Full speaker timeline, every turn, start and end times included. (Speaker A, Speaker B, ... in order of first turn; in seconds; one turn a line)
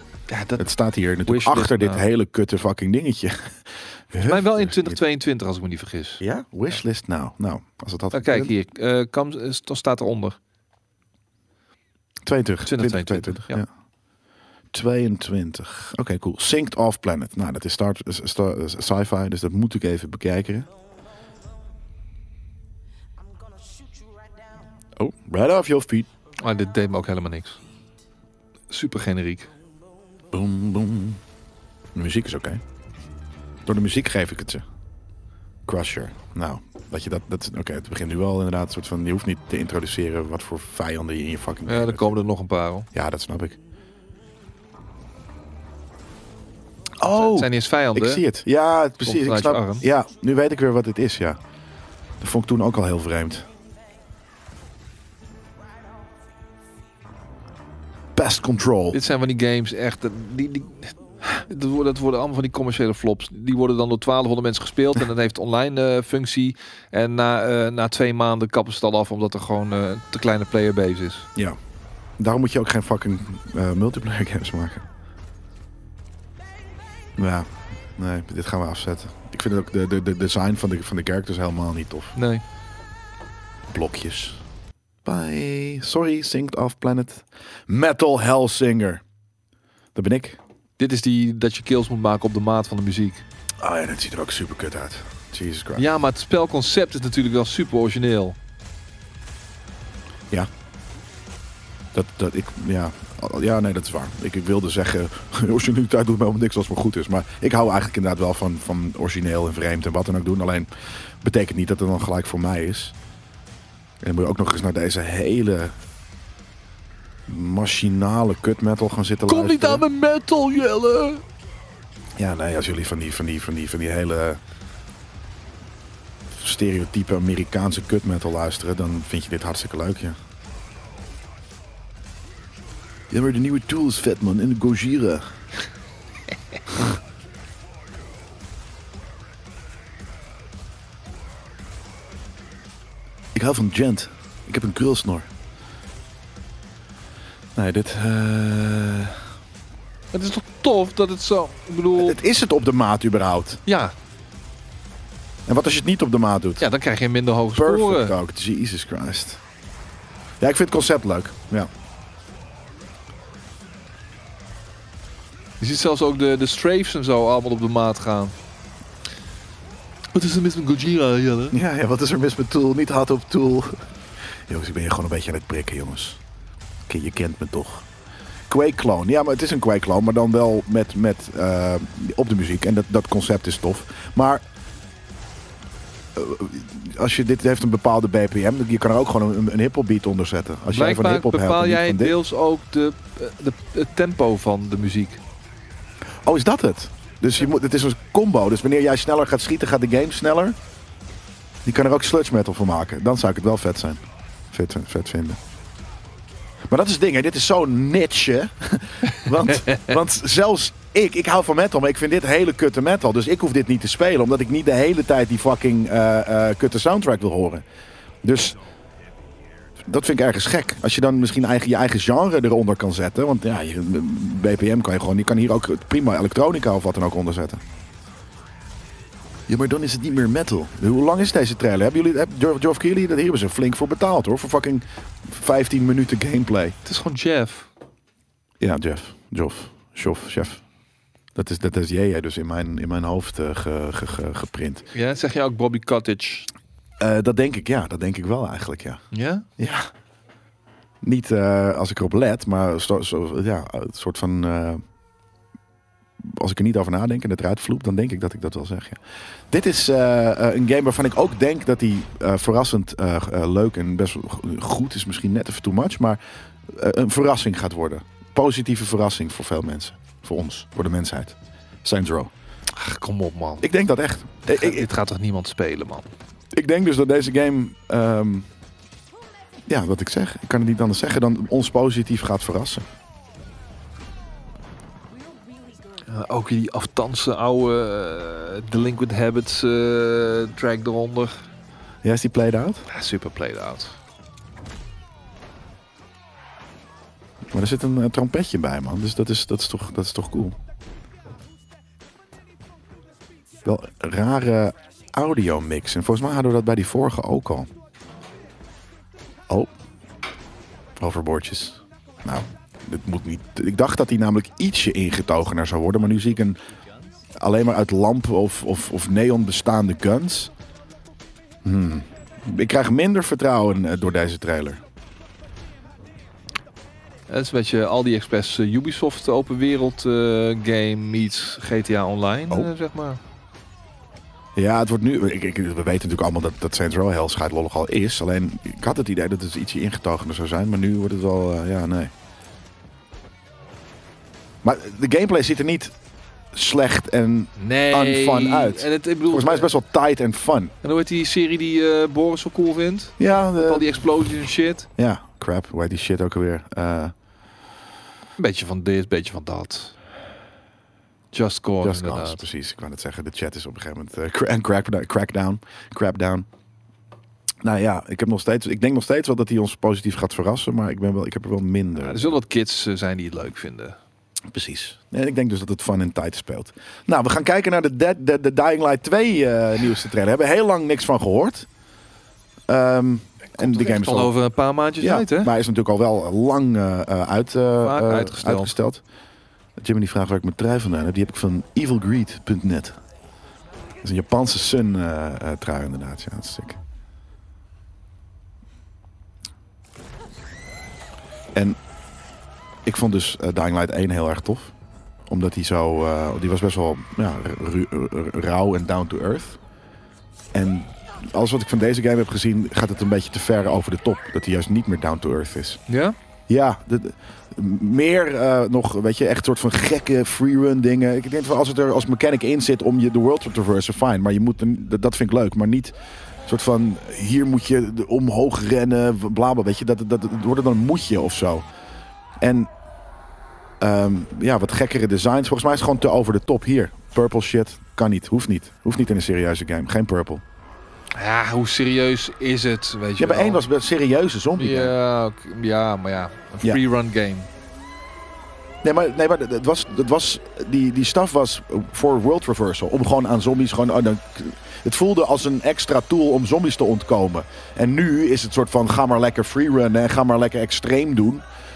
Speaker A: 0.3-2.0
Speaker B: 0.6-5.0
Speaker A: 4.2-6.8
Speaker B: 6.2-8.5
Speaker A: 8.1-10.4
Speaker B: 12.2-13.7
Speaker A: 12.6-13.6
Speaker B: 14.7-20.7
Speaker C: 23.2-24.6
Speaker B: 25.0-26.1
Speaker A: 26.4-27.6
Speaker A: 28.7-29.5
Speaker B: 30.3-31.2
Speaker B: 31.9-32.6
Speaker B: 33.6-34.6
Speaker B: 35.7-42.2
Speaker A: 41.6-42.9
Speaker B: 42.9-43.6
Speaker B: 47.0-51.4
Speaker A: 47.0-48.2
Speaker A: 49.0-49.9
Speaker B: 52.2-53.5
Speaker B: 58.1-59.0
Speaker A: 58.9-71.3
Speaker B: 72.2-74.8
Speaker B: 77.2-82.2
Speaker A: 82.2-82.4
Speaker B: 83.7-84.4
Speaker B: 85.0-89.0
Speaker B: 89.9-90.4
Speaker A: 90.8-93.2
Speaker B: 93.6-95.8
Speaker A: 95.8-98.4
Speaker B: 101.9-110.7
Speaker B: 111.2-112.9
Speaker B: 114.0-115.8
Speaker B: 117.3-119.8
Speaker A: 119.2-121.2
Speaker B: 122.2-124.4
Speaker B: 126.3-130.2
Speaker B: 133.1-135.3
Speaker B: 143.3-145.3
Speaker B: 147.5-149.2
Speaker A: 150.1-152.2
Speaker B: 152.0-153.6
Speaker A: 153.7-153.9
Speaker B: 155.5-156.7
Speaker A: 156.6-158.2
Speaker B: 157.5-159.4
Speaker B: 160.4-161.7
Speaker A: 165.6-168.3
Speaker A: 170.1-171.6
Speaker B: 171.5-173.8
Speaker B: 174.5-176.2
Speaker B: 176.9-177.9
Speaker B: 178.5-184.4
Speaker B: 186.2-192.1
Speaker A: 190.7-195.2
Speaker B: 196.2-200.6
Speaker B: 201.6-205.4
Speaker B: 206.7-217.6
Speaker B: 218.2-218.6
Speaker B: 219.8-227.6
Speaker B: 229.5-236.8
Speaker A: 236.8-237.7
Speaker B: 238.6-240.6
Speaker B: 241.3-244.8
Speaker A: 244.9-246.5
Speaker B: 247.0-249.0
Speaker A: 249.1-249.4
Speaker B: 249.6-249.9
Speaker B: 251.0-254.8
Speaker B: 256.2-272.3
Speaker A: 272.7-273.7
Speaker B: 273.6-274.9
Speaker A: 274.5-276.1
Speaker B: 276.5-278.5
Speaker B: 279.7-282.9
Speaker C: 285.1-286.3
Speaker A: 286.0-291.4
Speaker B: 292.0-292.9
Speaker A: 292.9-293.9
Speaker B: 297.5-300.6
Speaker B: 303.6-307.7
Speaker B: 311.0-316.6
Speaker B: 317.4-320.5
Speaker B: 321.6-324.8
Speaker A: 327.3-333.2
Speaker B: 334.6-342.1
Speaker B: 344.6-345.9
Speaker B: 346.5-350.7
Speaker A: 347.6-349.7
Speaker A: 350.8-354.9
Speaker B: 353.2-354.0
Speaker B: 355.0-357.1
Speaker A: 358.4-359.9
Speaker A: 361.3-362.4
Speaker B: 361.8-366.4
Speaker B: 367.6-372.3
Speaker A: 372.0-374.0
Speaker B: 374.5-381.7
Speaker B: 382.7-384.3
Speaker A: 383.5-385.5
Speaker B: 385.0-389.0
Speaker A: 387.8-388.8
Speaker B: 389.8-393.0
Speaker B: 394.0-396.8
Speaker B: 402.8-404.7
Speaker B: 405.3-409.6
Speaker B: 410.5-415.8
Speaker A: 415.9-416.2
Speaker B: 416.5-431.7
Speaker B: 432.4-432.7
Speaker B: 433.8-440.4
Speaker A: 441.1-443.6
Speaker B: 443.2-444.9
Speaker A: 444.6-447.5
Speaker B: 448.8-461.4